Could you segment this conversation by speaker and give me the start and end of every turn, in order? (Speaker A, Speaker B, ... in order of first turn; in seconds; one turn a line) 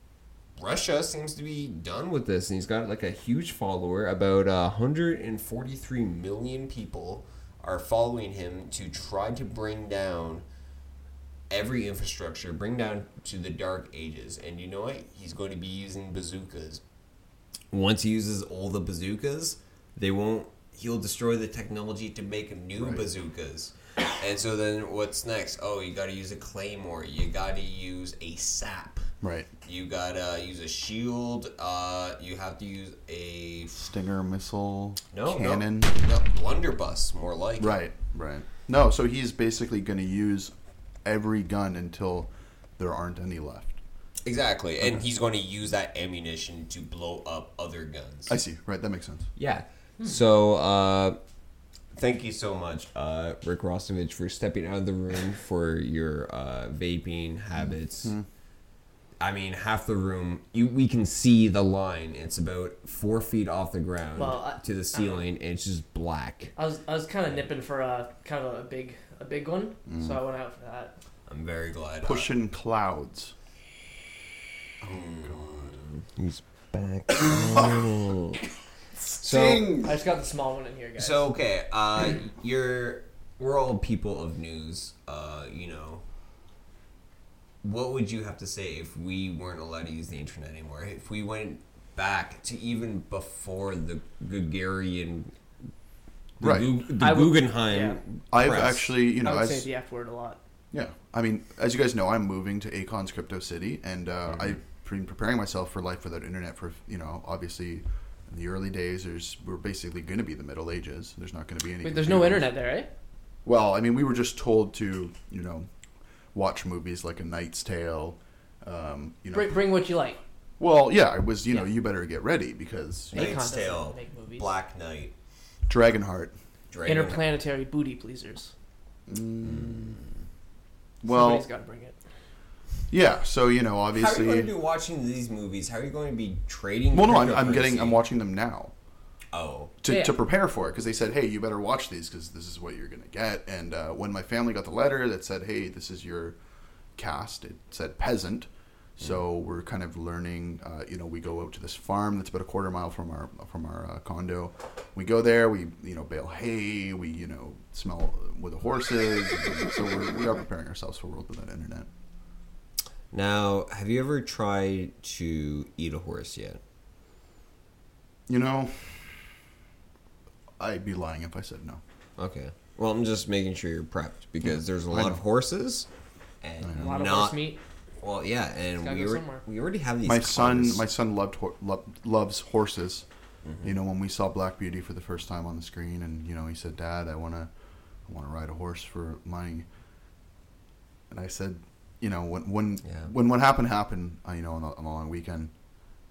Speaker A: 0.6-10.4
Speaker A: 11.5-16.8
Speaker A: 17.7-29.1
Speaker B: 22.8-23.1
Speaker B: 29.2-29.5
Speaker A: 29.6-33.8
Speaker B: 33.7-35.9
Speaker A: 35.1-37.8
Speaker B: 37.6-40.5
Speaker B: 41.0-43.8
Speaker A: 44.2-48.4
Speaker B: 48.3-49.3
Speaker A: 49.4-51.2
Speaker A: 51.9-58.1
Speaker A: 59.2-66.5
Speaker C: 64.2-65.2
Speaker C: 66.6-70.9
Speaker B: 69.9-70.2
Speaker A: 71.3-72.3
Speaker B: 72.0-73.3
Speaker B: 74.8-75.8
Speaker A: 74.9-78.4
Speaker B: 77.4-77.7
Speaker B: 78.9-80.0
Speaker A: 79.2-79.8
Speaker C: 79.8-81.3
Speaker A: 81.0-86.0
Speaker A: 87.6-95.3
Speaker A: 96.4-98.9
Speaker B: 96.4-96.7
Speaker C: 97.0-98.0
Speaker B: 98.3-99.7
Speaker C: 99.2-100.4
Speaker B: 100.7-112.5
Speaker A: 104.3-104.5
Speaker C: 111.8-112.9
Speaker B: 113.4-115.7
Speaker B: 116.3-119.7
Speaker C: 119.3-120.2
Speaker B: 120.6-123.3
Speaker C: 123.1-124.5
Speaker A: 123.1-125.1
Speaker B: 125.7-126.3
Speaker A: 126.7-127.3
Speaker C: 126.8-128.5
Speaker B: 129.1-130.0
Speaker A: 129.4-130.1
Speaker B: 131.0-131.4
Speaker C: 131.1-131.9
Speaker B: 132.9-134.5
Speaker A: 133.9-138.0
Speaker B: 136.9-138.7
Speaker A: 139.3-139.7
Speaker B: 139.8-146.4
Speaker C: 139.9-140.2
Speaker B: 146.9-161.9
Speaker A: 163.1-166.6
Speaker B: 168.3-169.1
Speaker B: 170.6-171.8
Speaker A: 172.2-175.9
Speaker B: 174.4-175.2
Speaker A: 176.4-177.4
Speaker B: 176.6-176.9
Speaker C: 176.8-177.6
Speaker A: 178.0-180.8
Speaker C: 178.8-179.4
Speaker B: 180.0-183.1
Speaker A: 183.4-183.7
Speaker B: 183.6-187.5
Speaker B: 188.1-189.7
Speaker B: 191.1-195.5
Speaker A: 192.8-193.1